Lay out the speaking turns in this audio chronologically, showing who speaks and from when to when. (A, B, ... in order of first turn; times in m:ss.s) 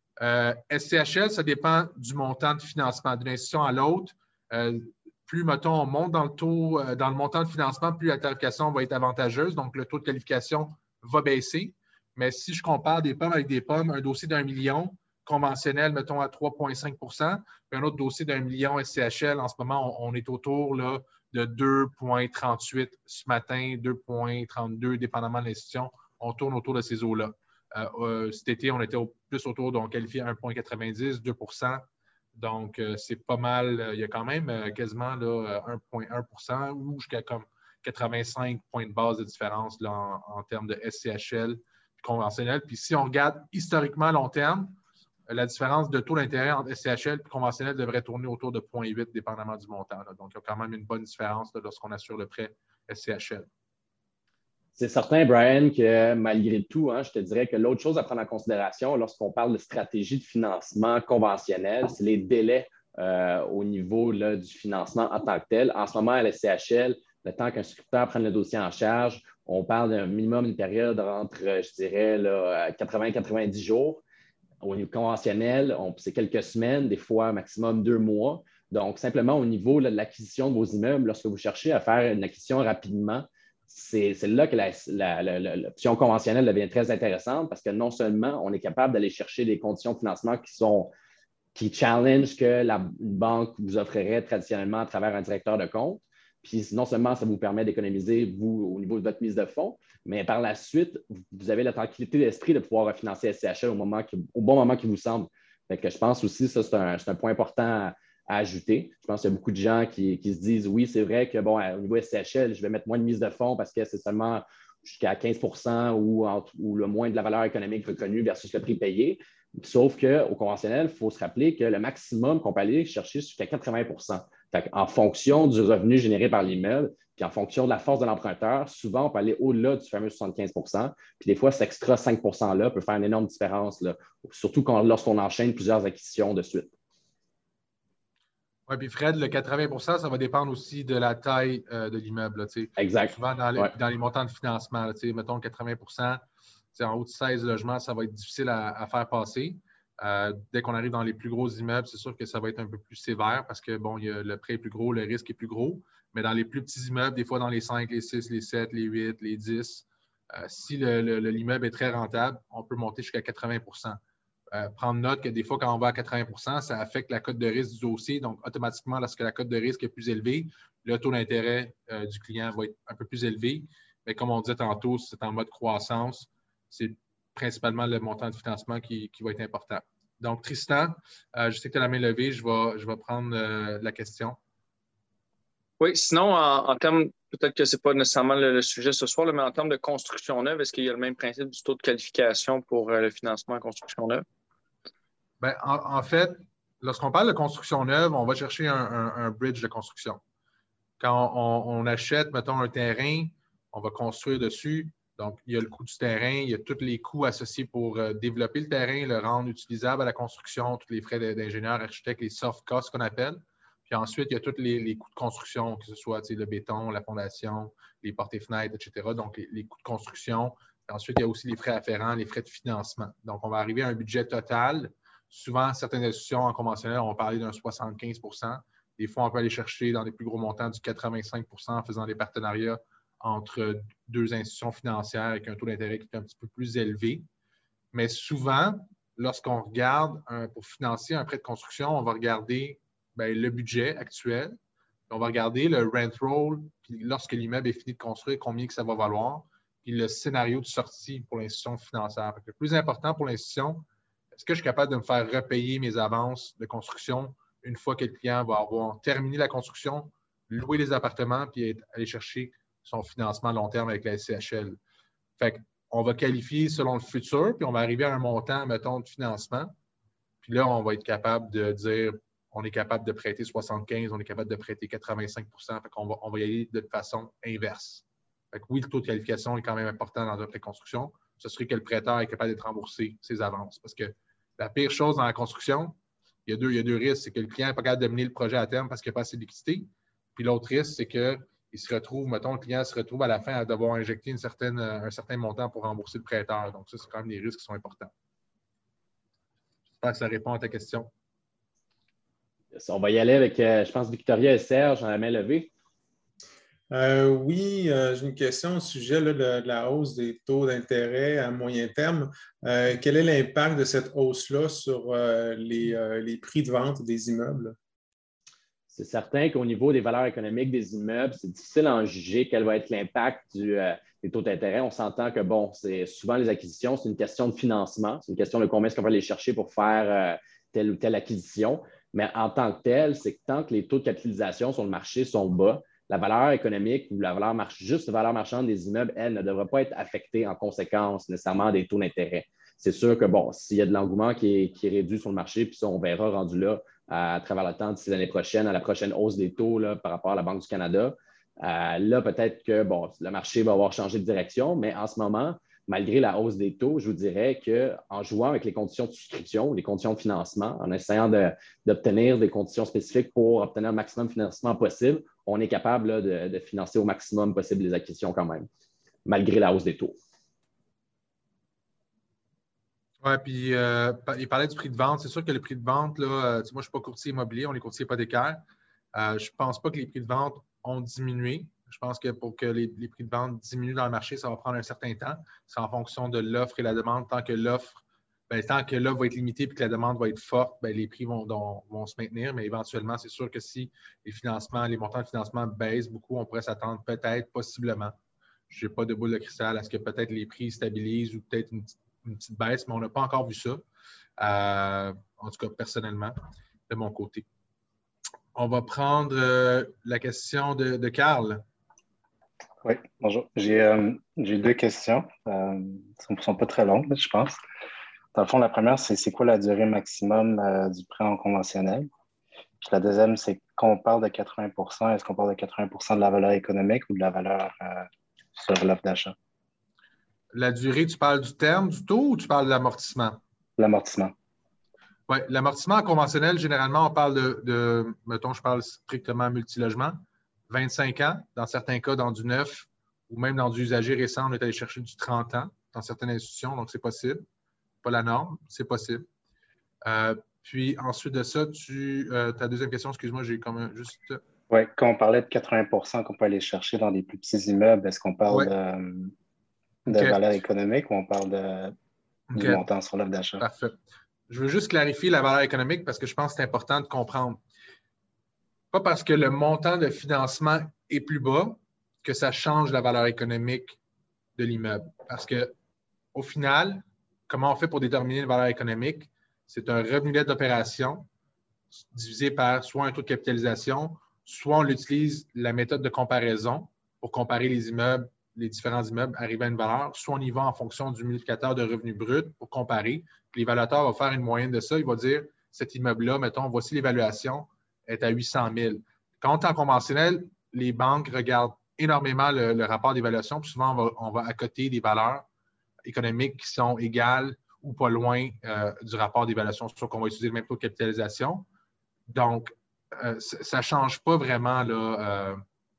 0:00.2-0:44.8 A
0:45.3-0:53.5 A
0:54.8-1:14.0 B
1:14.6-1:30.9 B
1:31.5-2:16.7 B
2:18.7-2:26.2 A
2:22.8-2:23.7 B
2:26.7-2:44.0 A
2:44.5-3:04.4 A
3:05.8-3:14.2 C
3:15.4-3:20.2 A
3:21.0-3:57.2 A
3:57.9-4:04.6 A
4:05.1-4:24.8 A
4:25.4-4:29.7 A
4:30.4-4:58.1 A
5:00.0-5:01.1 A
5:02.7-5:05.7 B
5:06.9-5:17.7 D
5:18.9-6:08.7 B
6:09.2-6:10.2 B
6:13.2-6:18.6 A
6:19.1-6:38.1 A
6:38.7-6:43.8 A
6:44.4-6:46.4 A
6:46.9-6:47.5 A
6:48.5-6:51.6 A
6:52.8-6:57.6 E
6:58.3-7:02.1 E
7:02.8-7:09.4 E
7:10.5-7:13.4 A
7:13.8-7:14.3 E
7:15.3-7:27.4 A
7:28.0-7:29.2 A
7:30.0-7:34.4 A
7:34.7-7:39.3 E
7:40.1-7:42.0 E
7:40.1-7:40.4 A
7:42.5-7:43.6 E
7:42.6-7:42.8 A
7:43.6-7:44.0 A
7:44.5-7:47.6 A
7:48.9-7:54.0 A
7:54.6-7:55.7 A
7:56.3-8:01.3 A
8:02.1-8:25.5 A
8:26.0-8:31.6 A
8:32.3-8:35.6 A